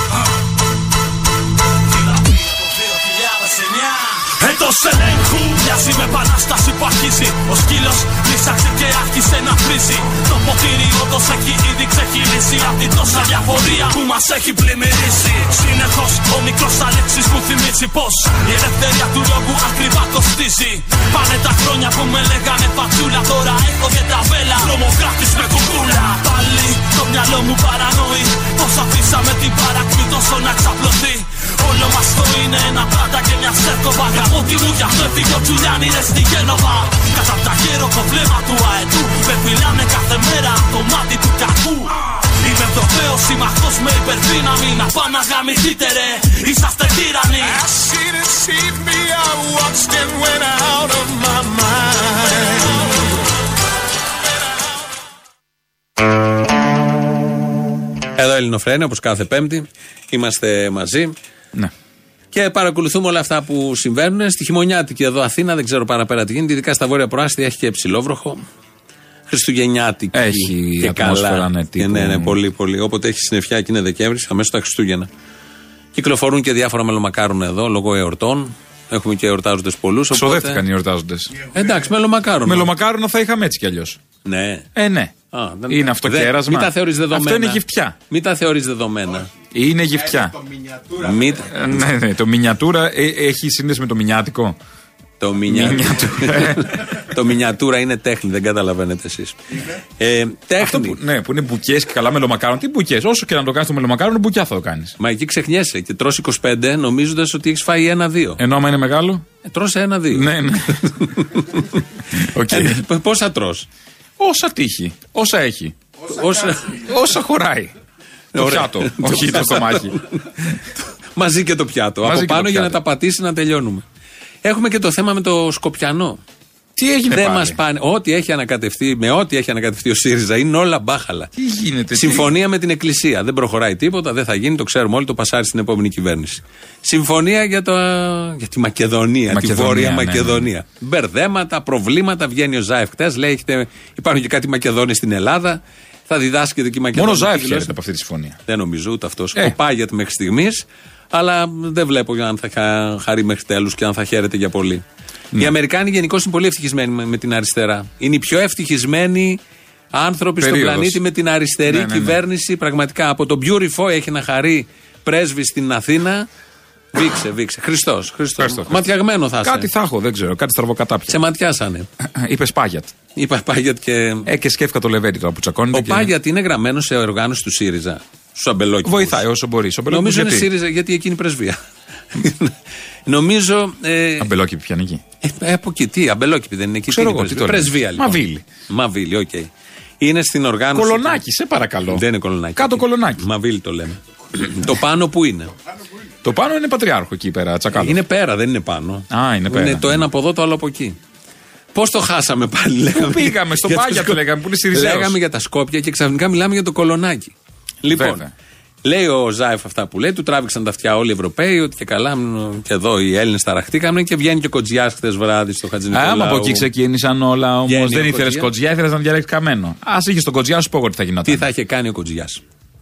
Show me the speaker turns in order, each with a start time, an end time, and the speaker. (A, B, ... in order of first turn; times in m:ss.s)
0:01.9-0:47.7 A
0:58.2-1:01.1 B
1:02.3-1:08.4 B
1:09.3-1:15.1 B
1:10.1-1:12.4 C
1:16.0-1:20.6 B
1:20.1-1:21.4 C
1:21.5-1:22.7 B
1:22.4-1:24.0 C
1:24.2-1:24.7 B
1:24.8-1:25.2 C
1:25.3-1:29.3 B
1:25.7-1:28.0 C
1:29.5-1:30.4 C
1:31.0-1:31.6 B
1:31.4-1:34.6 C
1:35.2-1:39.4 B
1:35.5-1:36.8 C
1:40.0-1:41.0 B
1:40.6-1:45.0 C
1:45.0-1:48.4 B
1:48.4-1:49.2 C
1:49.4-1:51.8 B
1:50.1-1:50.8 C
1:52.1-1:52.8 C
1:52.4-1:53.7 B
1:54.2-1:55.8 C
1:56.1-1:56.8 B
1:56.7-1:57.7 C
1:58.3-2:03.8 B
1:58.4-2:00.0 C
2:02.0-2:02.8 C
2:04.4-2:06.2 B
2:06.8-2:07.6 C
2:07.1-2:11.3 B
2:11.4-2:12.3 C
2:11.9-2:27.7 B
2:19.3-2:20.5 C
2:26.9-2:28.4 C
2:28.5-2:34.8 B
2:35.4-2:39.4 B
2:39.9-2:46.3 B
2:40.4-2:41.0 C
2:41.6-2:42.2 C
2:46.9-2:49.7 B
2:48.4-2:48.9 C
2:49.4-2:51.2 C
2:51.1-2:51.9 B
2:52.0-2:52.9 C
2:53.2-2:54.3 B
2:54.3-2:56.1 C
2:55.7-2:59.2 B
2:58.8-3:00.5 C
2:59.9-3:04.3 B
3:04.2-3:05.0 C
3:05.2-3:09.5 B
3:06.9-3:08.5 C
3:10.0-3:11.2 B
3:10.7-3:12.0 C
3:11.9-3:15.5 B
3:12.6-3:13.2 C
3:16.2-3:18.0 C
3:17.7-3:21.0 B
3:19.1-3:20.1 C
3:21.7-3:28.2 B
3:23.0-3:25.2 C
3:27.9-3:28.3 C
3:28.8-3:36.7 B
3:35.9-3:41.5 C
3:37.7-3:38.5 B
3:41.3-3:42.4 B